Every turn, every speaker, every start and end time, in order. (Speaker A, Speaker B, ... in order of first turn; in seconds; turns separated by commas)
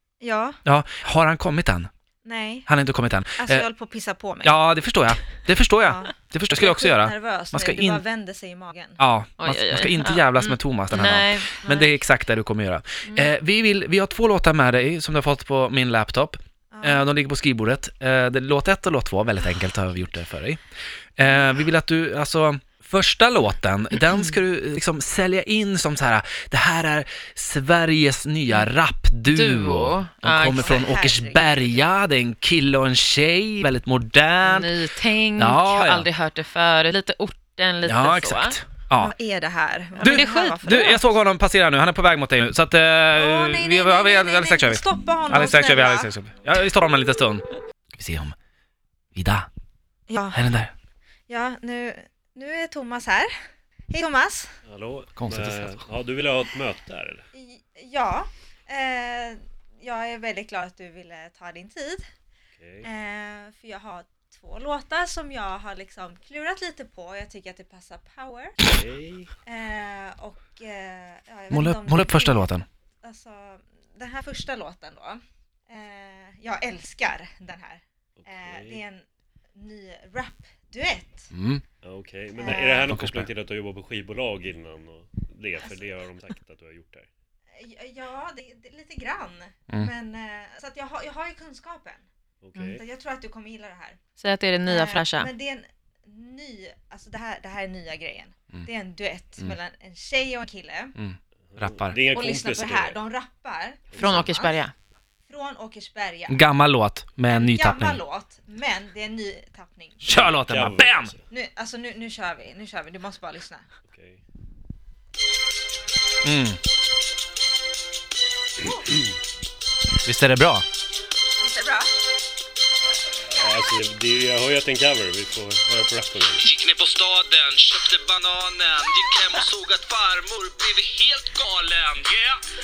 Speaker A: 0.2-0.6, Speaker B: 0.6-1.9, Speaker A: 2.2-2.7, Speaker B: 2.7-3.6, Speaker A: 3.4-4.6, Speaker B: 4.4-8.0, Speaker A: 5.8-9.0, Speaker B: 9.0-20.6, Speaker C: 9.4-12.0, Speaker A: 16.7-17.1, Speaker B: 21.1-34.7, Speaker C: 29.3-30.8, Speaker A: 30.5-31.9, Speaker C: 34.4-38.6, Speaker B: 35.4-36.1, Speaker B: 37.8-39.1, Speaker A: 38.9-41.1, Speaker C: 40.0-40.9, Speaker B: 40.0-48.3, Speaker A: 43.1-46.1, Speaker B: 49.1-49.5, Speaker A: 50.1-50.4, Speaker B: 50.3-50.7, Speaker A: 51.3-53.3, Speaker A: 53.9-54.5, Speaker D: 54.6-57.2, Speaker B: 55.1-55.8, Speaker A: 57.3-62.0, Speaker D: 62.6-62.9, Speaker A: 62.8-68.7, Speaker D: 68.6-69.3, Speaker A: 69.4-72.5, Speaker B: 71.5-72.6, Speaker A: 73.0-81.3, Speaker D: 78.2-78.8, Speaker B: 81.3-81.6, Speaker D: 81.8-87.1, Speaker A: 82.4-82.9, Speaker B: 82.8-83.3, Speaker A: 87.5-92.0, Speaker D: 92.4-92.8, Speaker A: 92.8-94.0, Speaker C: 94.2-95.3, Speaker A: 94.7-100.9, Speaker B: 101.0-102.0, Speaker D: 101.5-103.0, Speaker A: 102.0-104.6, Speaker D: 103.9-104.3, Speaker C: 103.9-104.7, Speaker A: 105.3-106.4, Speaker B: 106.3-108.0, Speaker A: 107.3-110.2, Speaker B: 110.0-111.1, Speaker D: 110.1-111.2, Speaker A: 111.3-113.7, Speaker D: 113.9-114.2, Speaker B: 116.2-116.6, Speaker A: 118.6-118.9, Speaker B: 120.0-120.6, Speaker A: 121.4-121.9, Speaker D: 123.2-126.5, Speaker E: 126.5-132.4